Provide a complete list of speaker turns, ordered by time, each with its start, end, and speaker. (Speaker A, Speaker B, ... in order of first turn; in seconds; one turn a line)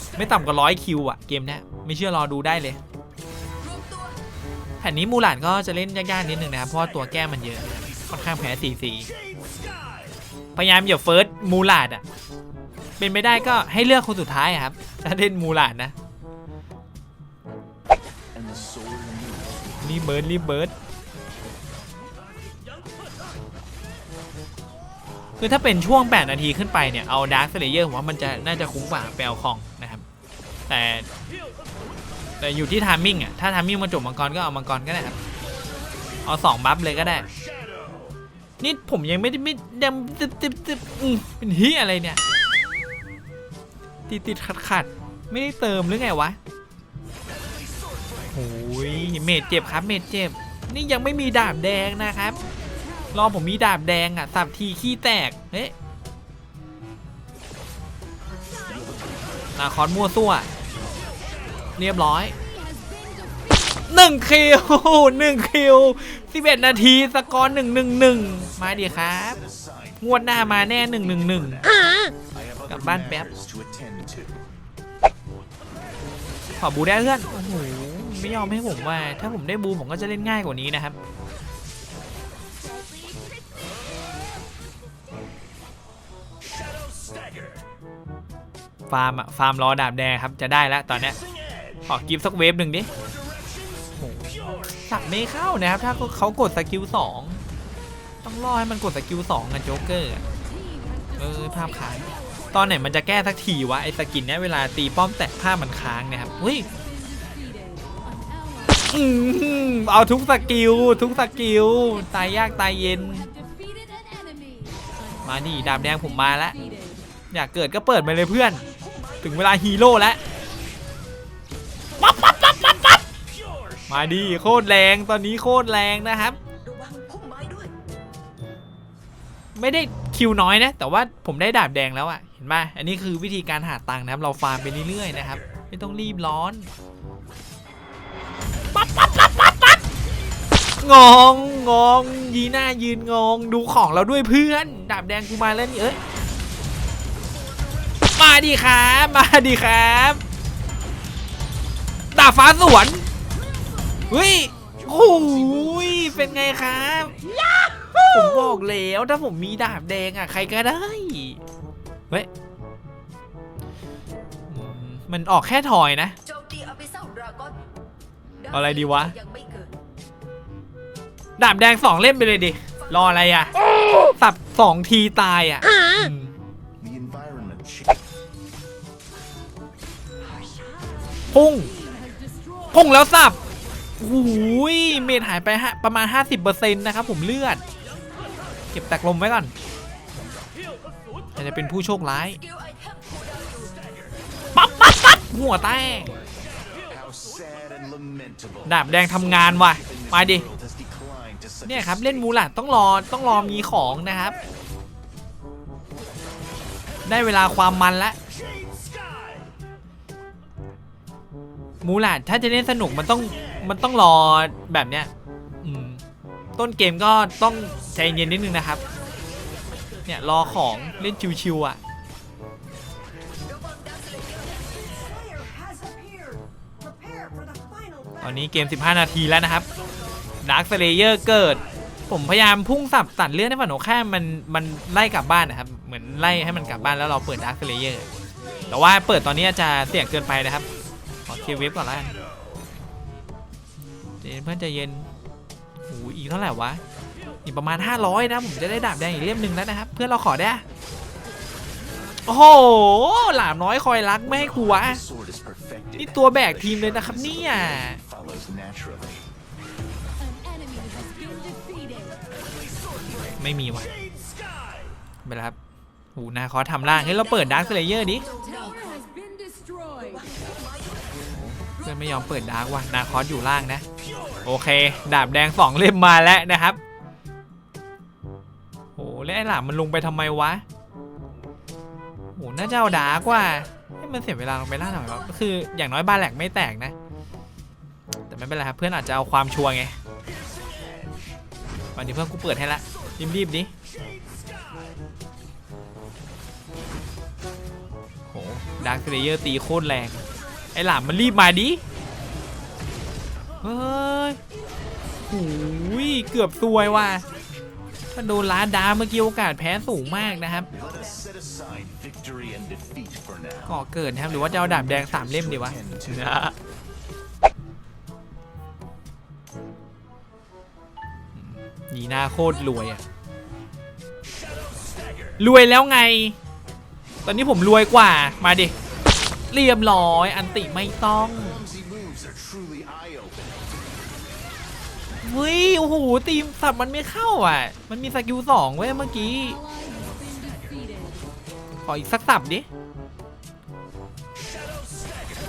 Speaker A: 0.2-2.8
Speaker B: 3.8-4.1
Speaker A: 4.8-9.1
Speaker A: 10.6-12.0
Speaker A: 13.0-15.9
Speaker C: 18.4-19.7
Speaker A: 19.8-20.7
Speaker A: 25.4-30.0
Speaker A: 30.7-31.1
Speaker A: 32.4-35.2
Speaker A: 36.2-37.3
Speaker A: 38.6-42.2
Speaker A: 44.1-46.4
Speaker A: 48.3-52.4
Speaker A: 53.1-55.7
Speaker A: 59.5-60.5
Speaker A: 61.8-62.4
Speaker A: 63.9-69.4
Speaker A: 70.0-71.7
Speaker C: 72.4-74.4
Speaker A: 72.7-73.3
Speaker A: 76.6-81.0
Speaker A: 88.9-91.2
Speaker A: 91.9-92.9
Speaker A: 94.0-94.2
Speaker A: 94.8-97.4
Speaker A: 98.2-100.2
Speaker A: 101.2-106.7
Speaker A: 108.8-113.3
Speaker B: 114.1-114.5
Speaker A: 115.2-116.6
Speaker A: 117.3-118.7
Speaker A: 119.2-120.2
Speaker A: 122.0-123.0
Speaker A: 123.9-126.4
Speaker B: 126.7-127.7
Speaker A: 129.6-136.7
Speaker A: 138.8-139.8
Speaker A: 140.8-146.0
Speaker A: 148.1-150.2
Speaker A: 152.1-153.1
Speaker A: 154.1-157.3
Speaker A: 158.0-161.4
Speaker A: 164.5-166.2
Speaker B: 166.3-167.6
Speaker A: 168.5-169.2
Speaker B: 169.2-169.7
Speaker A: 171.4-176.3
Speaker C: 176.8-177.9
Speaker A: 181.3-181.7
Speaker A: 182.7-183.4
Speaker A: 184.0-187.6
Speaker A: 188.7-189.5
Speaker A: 191.3-192.4
Speaker A: 194.6-196.2
Speaker C: 196.9-198.7
Speaker A: 198.7-200.5
Speaker C: 199.8-201.6
Speaker A: 201.7-204.4
Speaker A: 207.1-208.2
Speaker A: 211.8-215.1
Speaker A: 215.6-216.0
Speaker A: 216.6-218.8
Speaker A: 220.1-221.8
Speaker B: 223.6-224.5
Speaker B: 225.0-226.4
Speaker B: 226.9-227.8
Speaker A: 228.2-229.7
Speaker A: 230.4-238.1
Speaker A: 238.7-240.7
Speaker A: 241.3-242.2
Speaker A: 244.2-245.1
Speaker A: 245.9-246.8
Speaker A: 247.4-250.6
Speaker A: 252.3-255.0
Speaker C: 255.2-255.9
Speaker A: 256.0-258.0
Speaker C: 258.0-259.2
Speaker B: 260.5-262.1
Speaker A: 263.1-263.9
Speaker A: 265.2-265.6
Speaker A: 266.1-268.3
Speaker B: 268.3-270.5
Speaker A: 271.5-273.9
Speaker A: 274.4-276.8
Speaker A: 279.0-280.6
Speaker A: 282.4-286.9
Speaker A: 288.3-289.9
Speaker A: 291.9-293.7
Speaker A: 298.3-300.2
Speaker A: 300.7-301.8
Speaker A: 303.6-304.4
Speaker A: 305.3-307.3
Speaker A: 308.1-310.7
Speaker C: 310.7-313.7
Speaker A: 313.7-316.6
Speaker C: 314.9-316.0
Speaker A: 321.4-323.0
Speaker A: 325.4-326.4
Speaker A: 327.2-328.7
Speaker A: 329.5-331.7
Speaker C: 331.7-333.5
Speaker A: 335.2-339.6
Speaker B: 340.3-340.9
Speaker A: 341.8-342.7